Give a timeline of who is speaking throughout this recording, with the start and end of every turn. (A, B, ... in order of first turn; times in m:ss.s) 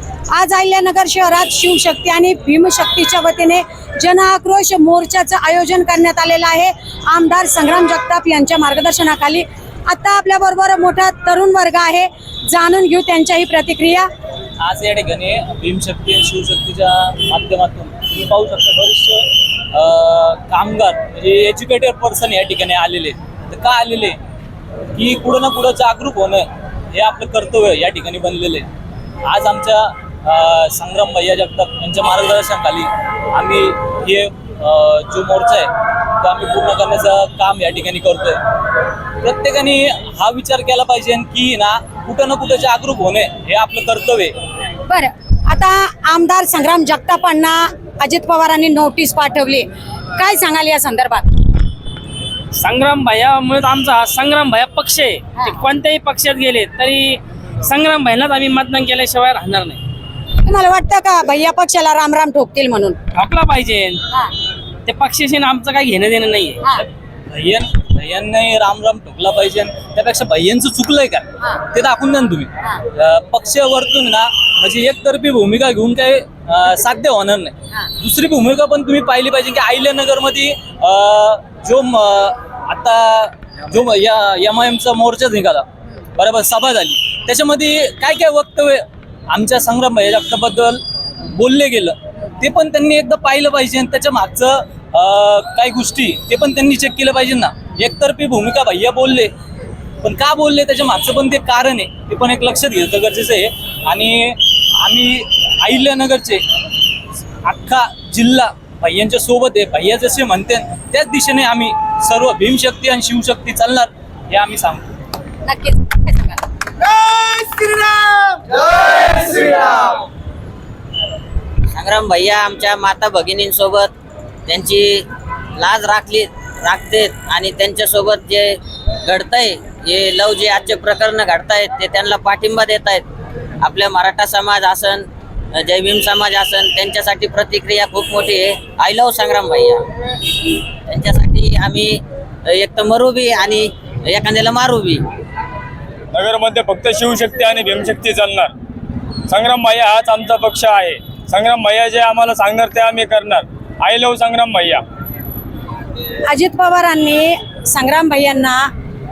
0:00.3-0:14.1 A
0:14.6-0:24.2 B
0:24.9-0:28.7 B
0:29.2-0:38.4 B
0:39.2-0:44.4 B
0:44.9-0:51.3 A
0:52.6-0:59.8 C
1:00.4-1:03.0 A
1:03.1-1:04.0 C
1:04.8-1:06.6 C
1:07.3-1:39.3 B
1:40.0-1:46.4 B
1:47.4-1:54.9 B
1:55.4-1:56.4 A
2:01.7-2:03.9 D
2:04.4-2:13.0 D
2:13.6-2:19.8 D
2:20.8-2:25.1 D
2:26.1-2:28.5 E
2:29.3-2:34.8 E
2:36.3-2:38.7 A